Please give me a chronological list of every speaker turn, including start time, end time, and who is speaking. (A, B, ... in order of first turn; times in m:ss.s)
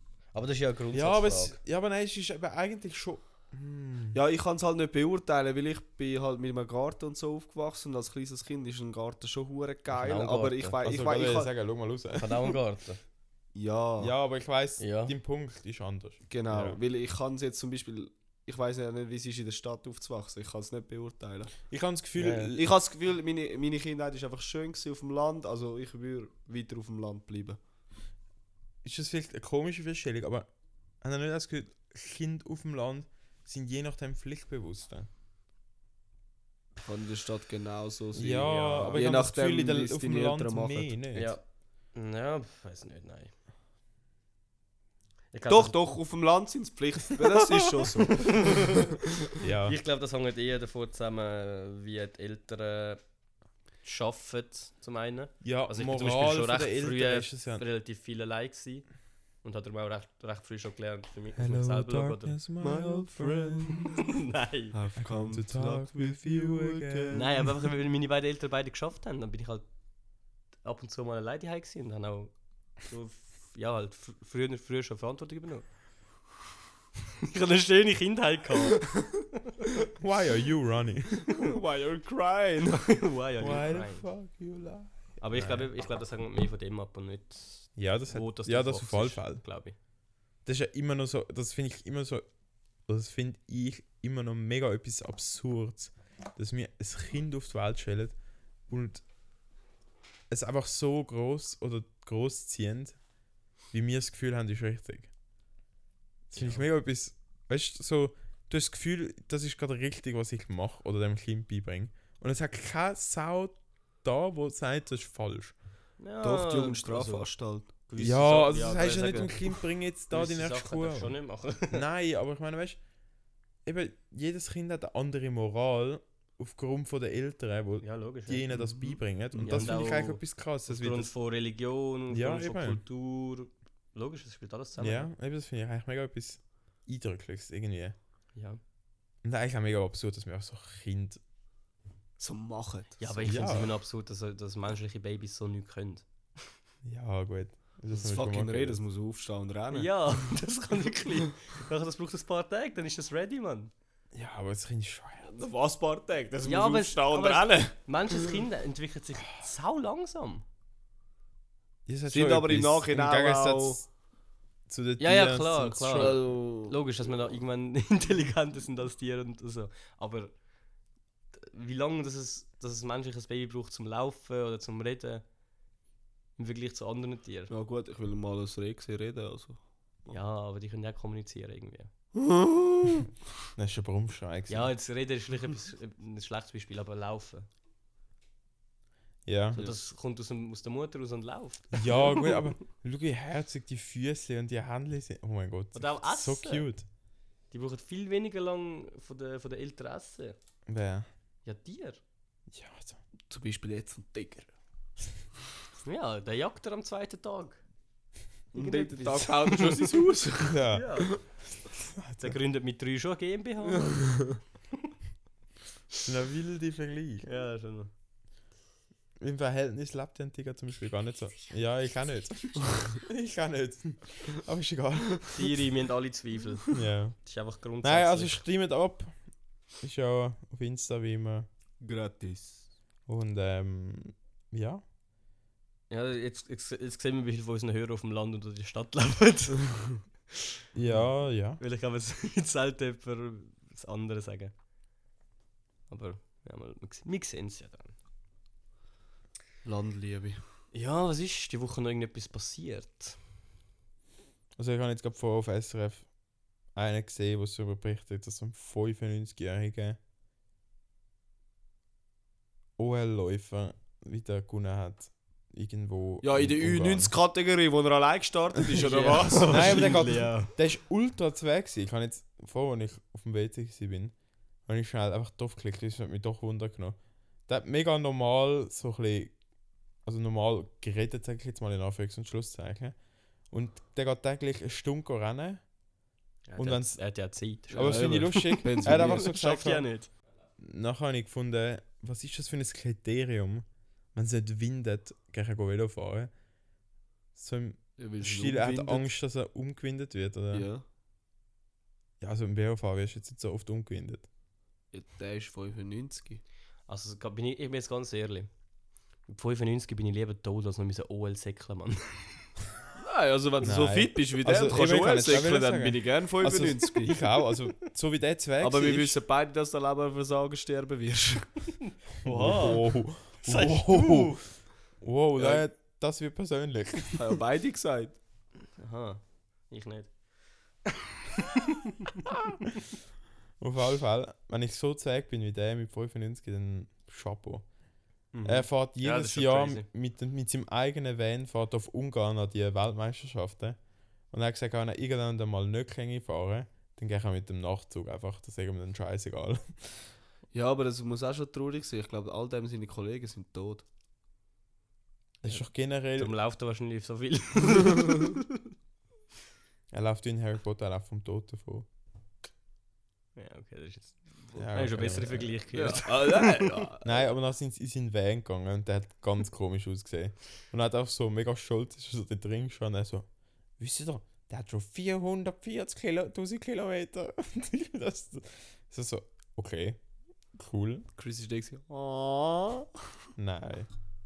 0:00.3-0:01.6 A
0:00.9-0:04.2 B
0:04.1-0:11.5 C
0:09.9-0:10.8 A
0:10.8-0:12.3 B
0:12.1-0:13.0 A
0:13.5-0:14.1 C
0:14.0-0:16.8 B
0:14.8-0:15.1 A
0:16.3-0:21.6 C
0:21.7-0:22.6 B
0:22.2-0:22.5 A
0:22.5-0:27.6 C
0:28.8-0:30.5 B
0:31.0-0:35.1 B
0:36.8-0:40.9 C
0:38.1-0:41.4 B
0:38.4-0:39.0 A
0:41.1-0:41.4 A
0:41.9-0:43.3 A
0:45.3-0:45.7 A
0:45.5-0:48.7 C
0:48.3-0:48.9 A
0:49.4-0:49.8 B
0:49.6-0:53.0 A
0:53.8-0:58.9 A
0:55.4-0:57.6 B
0:59.4-1:02.4 A
1:01.3-1:04.0 B
1:02.6-1:04.0 C
1:04.1-1:04.7 A
1:04.7-1:07.4 C
1:05.0-1:07.3 B
1:07.1-1:09.7 A
1:10.6-1:15.6 A
1:17.2-1:19.1 A
1:20.0-1:21.2 B
1:21.3-1:22.9 C
1:22.8-1:24.0 A
1:23.4-1:25.7 B
1:25.2-1:29.7 A
1:27.8-1:29.4 B
1:30.4-1:32.2 B
1:32.8-1:38.1 B
1:38.7-1:39.0 B
1:40.3-1:43.0 B
1:43.7-1:45.1 B
1:46.3-1:55.5 B
1:46.4-1:46.6 A
1:56.0-1:59.5 A
1:56.2-1:57.7 C
1:58.0-2:01.2 B
2:00.1-2:01.8 A
2:01.7-2:02.8 B
2:03.6-2:11.1 B
2:07.8-2:08.5 A
2:09.3-2:09.8 C
2:09.4-2:15.1 A
2:12.1-2:12.8 B
2:14.8-2:18.0 B
2:18.3-2:18.6 A
2:19.2-2:21.2 B
2:22.2-2:23.5 C
2:23.0-2:26.0 A
2:23.2-2:23.7 B
2:26.8-2:28.8 B
2:27.9-2:30.0 C
2:29.7-2:33.7 A
2:34.1-2:35.3 B
2:35.2-2:37.7 C
2:36.4-2:40.4 A
2:41.8-2:43.9 B
2:42.1-2:43.8 C
2:44.7-2:46.2 B
2:45.0-2:50.3 A
2:45.9-2:46.8 C
2:51.3-2:55.2 A
2:56.4-2:57.5 A
2:57.5-3:00.1 C
3:00.1-3:01.9 A
3:02.1-3:03.0 C
3:03.6-3:04.7 B
3:04.5-3:07.5 A
3:09.2-3:09.6 B
3:09.5-3:12.2 A
3:11.7-3:16.8 B
3:15.7-3:16.7 A
3:17.5-3:20.4 A
3:20.7-3:21.1 B
3:21.4-3:22.0 A
3:22.5-3:23.0 B
3:23.3-3:24.5 C
3:25.8-3:27.6 A
3:28.5-3:31.2 C
3:28.5-3:30.0 A
3:30.4-3:32.4 B
3:30.7-3:31.1 A
3:32.2-3:34.2 A
3:33.8-3:34.4 C
3:36.0-3:37.3 B
3:37.2-3:37.9 A
3:39.2-3:45.5 B
3:45.3-3:48.4 A
3:46.7-3:47.3 B
3:47.8-3:49.1 B
3:49.8-3:51.5 B
3:51.8-3:52.7 C
3:53.1-3:54.8 B
3:55.9-3:59.9 A
4:00.7-4:01.6 B
4:01.6-4:04.5 A
4:05.9-4:07.9 A
4:09.6-4:10.4 C
4:10.7-4:13.2 A
4:14.6-4:16.1 B
4:16.7-4:20.0 B
4:22.8-4:27.1 B
4:26.2-4:30.1 C
4:28.8-4:30.5 A
4:29.4-4:34.1 B
4:34.7-4:37.0 B
4:37.5-4:39.4 B
4:40.0-4:43.0 B
4:43.5-4:45.6 B
4:46.5-4:50.1 A
4:46.6-4:47.0 B
4:47.7-4:49.9 B
4:47.7-4:49.3 C
4:50.6-4:56.3 B
4:57.3-5:00.7 B
4:58.0-4:59.0 C
5:00.5-5:00.8 C
5:02.2-5:04.3 B
5:04.9-5:06.4 C
5:06.9-5:08.5 A
5:09.3-5:12.5 A
5:13.0-5:17.2 C
5:13.6-5:19.2 B
5:18.6-5:21.7 C
5:22.2-5:22.9 A
5:22.3-5:27.2 B
5:23.4-5:24.4 A
5:25.4-5:25.6 C
5:27.1-5:28.2 C
5:28.8-5:30.1 A
5:31.4-5:32.0 A
5:33.6-5:37.7 B
5:38.3-5:39.9 A
5:38.4-5:43.8 B
5:44.3-5:50.1 B
5:50.5-5:53.8 C
5:55.4-5:56.3 B
5:55.4-5:58.4 A
5:59.9-6:01.9 B
6:03.4-6:06.9 A
6:04.6-6:05.5 B
6:05.7-6:07.2 C
6:07.0-6:20.0 B
6:20.5-6:21.1 B
6:21.2-6:22.9 C
6:23.4-6:23.9 B